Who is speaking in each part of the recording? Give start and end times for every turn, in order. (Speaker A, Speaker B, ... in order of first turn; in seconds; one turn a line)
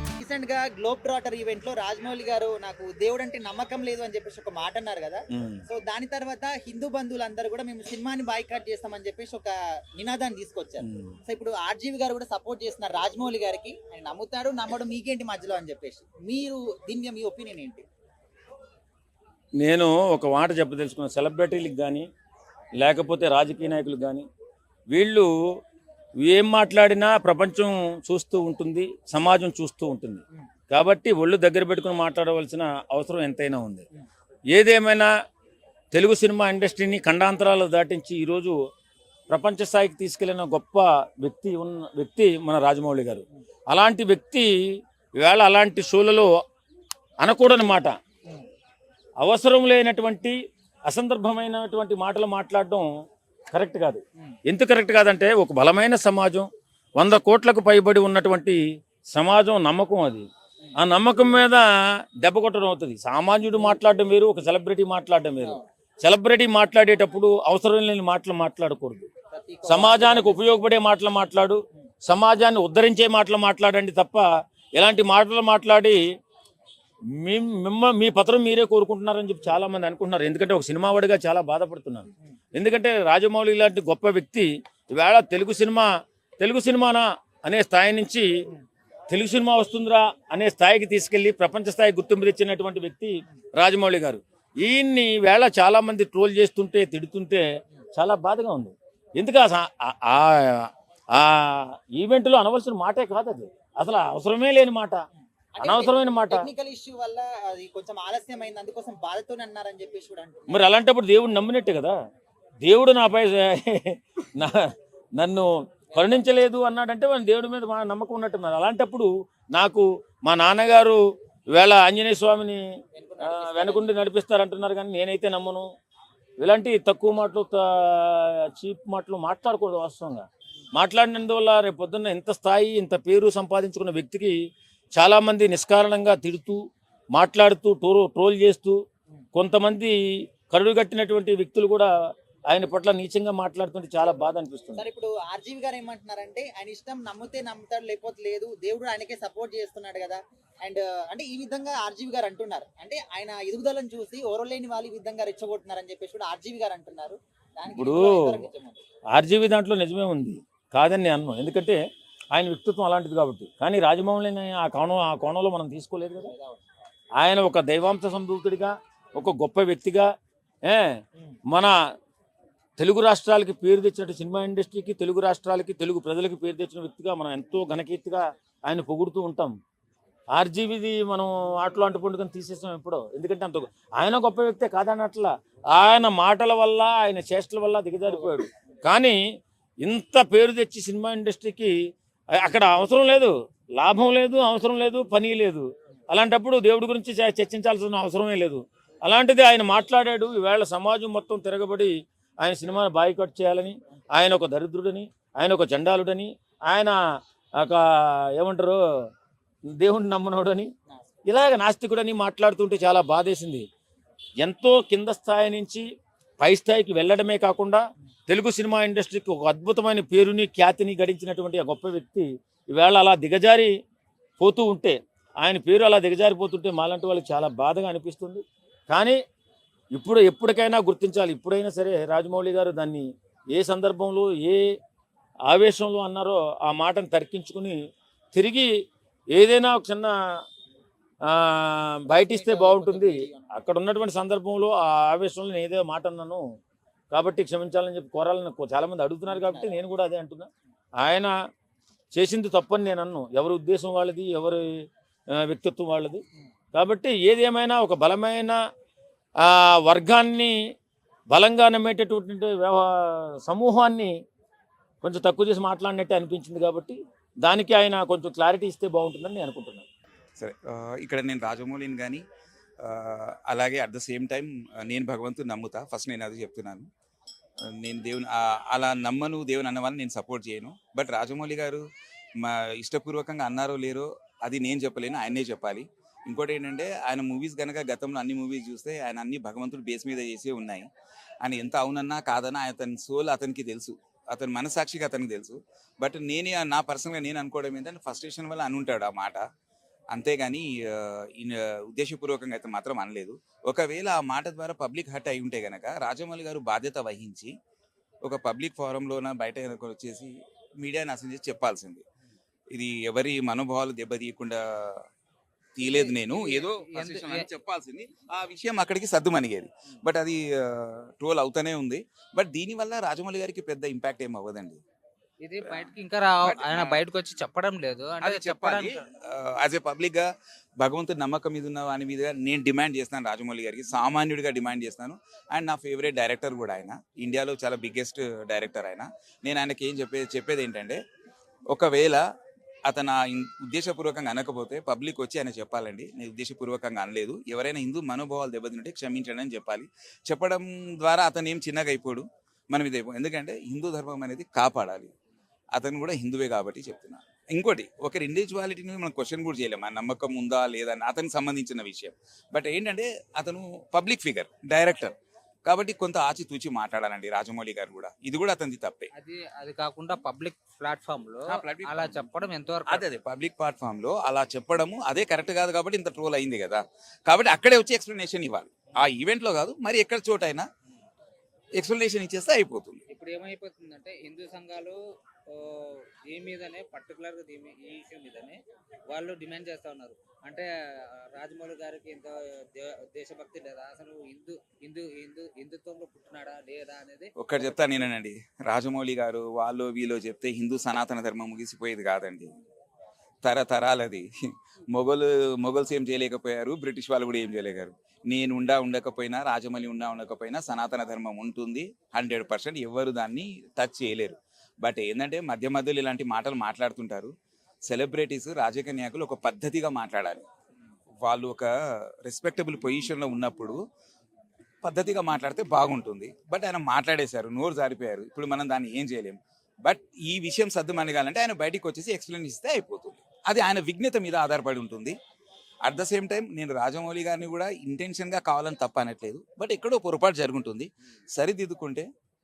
Speaker A: 0.2-17.9
Speaker B: 5.3-5.6
Speaker B: 10.8-11.2
Speaker B: 19.6-22.1
Speaker B: 22.8-24.3
Speaker B: 24.9-25.3
Speaker B: 26.2-33.9
Speaker B: 34.5-35.1
Speaker B: 35.9-38.5
Speaker B: 39.3-44.5
Speaker B: 45.2-46.3
Speaker B: 47.2-47.9
Speaker B: 49.2-50.4
Speaker B: 50.9-52.9
Speaker B: 53.5-56.5
Speaker B: 57.0-58.6
Speaker B: 59.1-60.3
Speaker B: 60.8-61.6
Speaker B: 62.2-69.1
Speaker A: 69.3-70.4
Speaker B: 69.7-76.0
Speaker B: 77.2-85.9
Speaker B: 86.4-88.3
Speaker B: 89.1-97.4
Speaker B: 98.0-105.0
Speaker A: 105.2-110.6
Speaker B: 105.6-106.5
Speaker B: 110.5-112.0
Speaker B: 112.6-121.0
Speaker A: 115.9-116.2
Speaker B: 121.5-122.6
Speaker A: 122.9-124.0
Speaker B: 123.2-125.7
Speaker B: 126.4-134.3
Speaker B: 135.0-136.6
Speaker B: 137.1-138.8
Speaker B: 139.3-141.9
Speaker B: 142.5-144.8
Speaker A: 144.8-158.8
Speaker B: 157.7-158.4
Speaker B: 159.1-161.8
Speaker B: 162.3-166.3
Speaker A: 166.2-166.6
Speaker B: 167.2-170.1
Speaker B: 170.7-170.9
Speaker B: 172.8-179.5
Speaker B: 180.3-189.2
Speaker B: 189.8-191.7
Speaker B: 192.3-207.0
Speaker B: 207.6-208.8
Speaker B: 209.8-210.7
Speaker A: 210.9-211.2
Speaker B: 211.3-213.7
Speaker B: 214.4-215.8
Speaker B: 216.4-223.7
Speaker B: 224.4-229.2
Speaker B: 229.9-234.7
Speaker B: 235.5-237.8
Speaker B: 238.3-238.7
Speaker B: 239.3-240.1
Speaker B: 241.3-246.4
Speaker A: 242.2-243.5
Speaker B: 247.1-250.5
Speaker A: 249.3-249.8
Speaker B: 251.0-251.3
Speaker B: 252.1-254.7
Speaker B: 255.3-256.2
Speaker B: 256.8-258.6
Speaker B: 259.4-260.6
Speaker B: 261.3-264.1
Speaker B: 265.0-269.9
Speaker C: 270.4-272.2
Speaker C: 272.8-276.9
Speaker C: 277.8-281.8
Speaker C: 282.4-290.8
Speaker C: 291.4-299.4
Speaker C: 300.1-307.5
Speaker C: 308.2-312.0
Speaker C: 312.7-315.0
Speaker C: 315.8-324.8
Speaker D: 315.8-317.5
Speaker D: 325.4-329.1
Speaker C: 326.4-327.0
Speaker C: 328.2-330.2
Speaker C: 330.8-341.0
Speaker C: 341.7-342.2
Speaker C: 342.9-355.1
Speaker C: 355.7-365.1
Speaker C: 365.7-369.1
Speaker D: 369.1-373.1
Speaker C: 371.5-372.4
Speaker C: 372.9-380.7
Speaker C: 381.8-383.0
Speaker D: 383.1-385.0
Speaker D: 385.5-398.1
Speaker C: 397.4-402.5
Speaker C: 403.4-404.2
Speaker C: 404.9-417.3
Speaker C: 417.9-420.4
Speaker C: 421.2-421.7
Speaker C: 422.2-423.8
Speaker C: 424.8-435.1
Speaker C: 435.9-442.0